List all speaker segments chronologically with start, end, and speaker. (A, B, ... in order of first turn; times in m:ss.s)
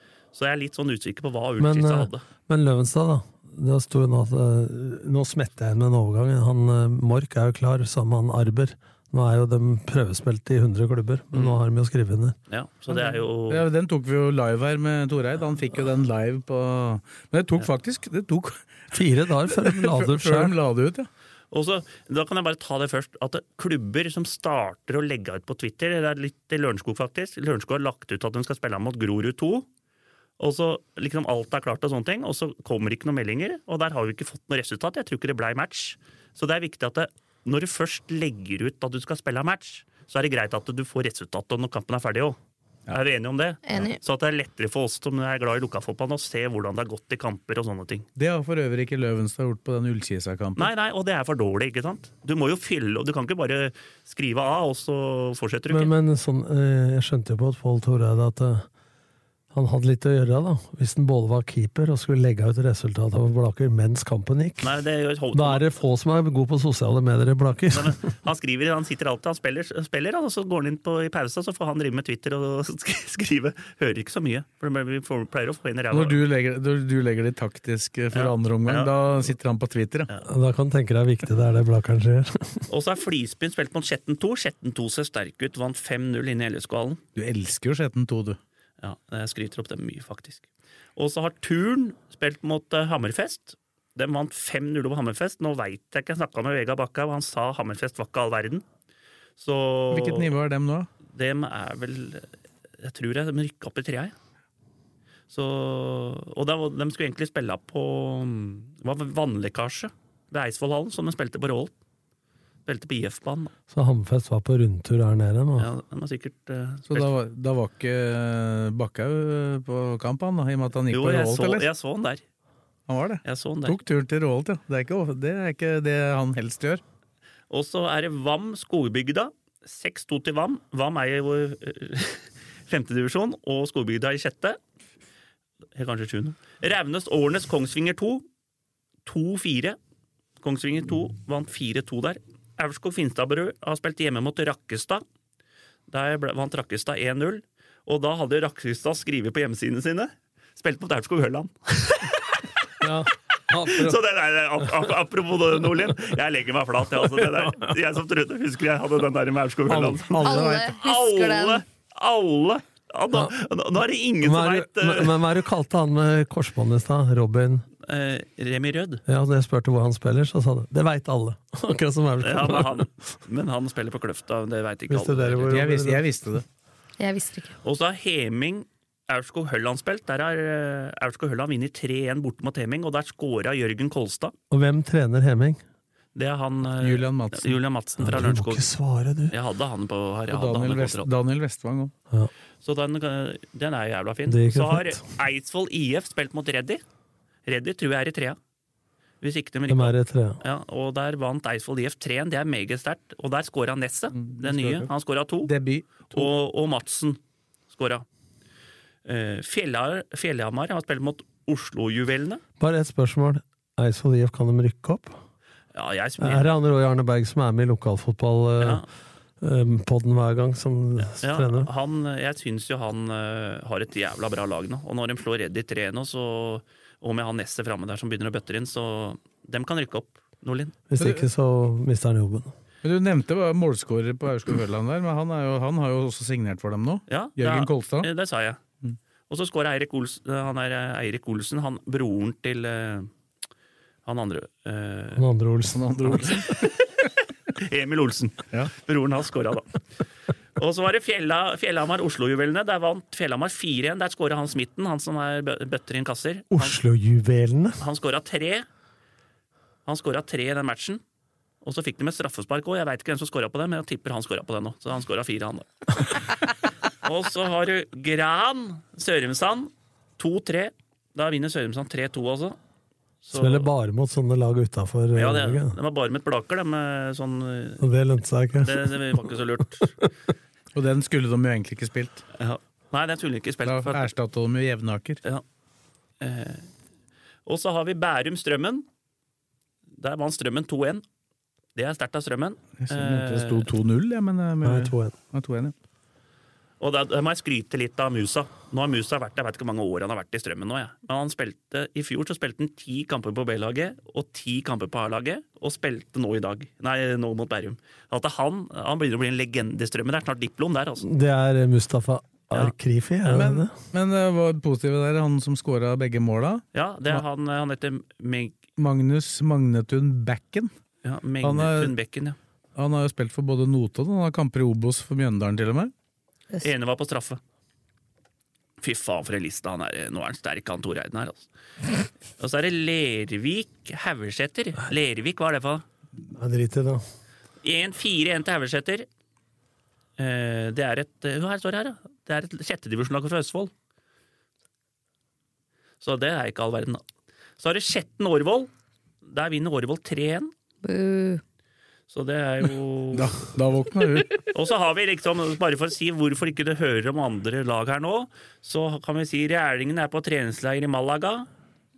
0:00.3-0:02.2 A
0:01.6-0:12.4 B
0:11.3-0:11.6 A
0:12.5-0:13.6 A
0:12.9-0:18.9 C
0:18.9-0:20.6 B
0:19.5-0:21.1 C
0:21.5-0:29.7 A
0:30.4-0:42.4 A
0:42.9-0:48.1 A
0:43.6-0:44.0 D
0:48.2-0:50.7 C
0:50.6-0:55.9 A
0:55.7-0:58.7 B
0:59.5-1:04.7 B
1:04.6-1:05.7 A
1:05.3-1:08.0 B
1:07.7-1:16.2 A
1:15.9-1:20.1 C
1:18.1-1:18.9 A
1:20.2-1:22.7 B
1:22.7-1:27.0 A
1:27.2-1:28.4 C
1:28.8-1:38.6 A
1:39.4-1:40.3 A
1:39.9-1:40.9 C
1:41.1-1:42.3 A
1:42.8-1:44.1 A
1:45.3-1:51.7 A
1:52.6-1:53.5 A
1:53.7-1:55.7 B
1:55.6-1:57.1 A
1:56.9-2:01.6 C
2:00.9-2:02.2 A
2:02.9-2:06.8 C
2:03.2-2:03.8 A
2:07.5-2:14.6 A
2:15.7-2:18.2 A
2:19.0-2:19.8 A
2:20.4-2:25.0 A
2:25.9-2:32.8 A
2:32.8-2:34.0 B
2:33.6-2:45.2 A
2:39.7-2:40.7 B
2:40.2-2:41.6 D
2:44.2-2:47.6 B
2:47.8-2:49.0 A
2:49.1-2:52.9 B
2:52.2-2:55.6 A
2:54.9-2:56.1 B
2:55.5-2:56.4 C
2:57.0-2:57.6 D
2:57.6-3:04.3 A
3:04.5-3:05.6 B
3:06.1-3:08.7 A
3:06.8-3:07.6 C
3:08.0-3:09.3 B
3:09.3-3:11.1 A
3:10.3-3:11.9 C
3:12.6-3:16.8 A
3:14.2-3:15.0 B
3:17.4-3:18.4 A
3:19.2-3:25.5 A
3:19.7-3:20.4 B
3:24.1-3:24.9 C
3:25.4-3:26.3 C
3:26.1-3:27.2 A
3:27.7-3:28.0 A
3:29.0-3:32.4 A
3:32.6-3:35.2 B
3:35.7-3:36.5 A
3:36.2-3:38.8 B
3:38.6-3:38.9 A
3:39.4-3:41.7 B
3:41.2-3:50.8 A
3:50.9-3:52.5 B
3:51.0-3:51.2 C
3:52.8-3:58.1 C
3:57.1-3:58.6 A
3:59.3-4:03.1 A
4:04.0-4:05.3 A
4:05.1-4:06.2 B
4:05.7-4:06.7 C
4:06.1-4:06.9 A
4:07.5-4:09.8 A
4:10.6-4:16.8 A
4:16.5-4:17.8 B
4:17.8-4:18.6 A
4:19.8-4:21.0 A
4:21.6-4:26.4 A
4:27.0-4:32.6 A
4:33.2-4:33.7 A
4:33.3-4:35.8 B
4:35.1-4:37.8 A
4:37.8-4:39.3 B
4:38.6-4:39.9 A
4:40.7-4:42.2 C
4:42.4-4:44.1 A
4:43.6-4:45.2 C
4:46.2-4:46.7 A
4:47.4-4:48.8 A
4:50.0-4:51.0 A
4:51.8-4:53.7 A
4:52.8-4:55.7 C
4:54.6-4:55.2 B
4:56.8-5:11.1 A
5:11.0-5:13.8 B
5:13.3-5:17.2 C
5:16.7-5:18.6 A
5:18.8-5:20.7 C
5:21.0-5:22.4 A
5:21.4-5:21.9 C
5:22.8-5:25.9 C
5:26.6-5:27.4 A
5:28.8-5:31.5 A
5:32.4-5:35.8 A
5:36.3-5:37.0 B
5:37.6-5:39.1 A
5:40.2-5:43.7 A
5:46.0-5:47.0 A
5:47.6-5:48.7 A
5:49.2-5:50.5 A
5:50.8-5:51.4 D
5:52.1-5:53.5 A
5:53.1-5:54.4 C
5:54.5-6:01.5 A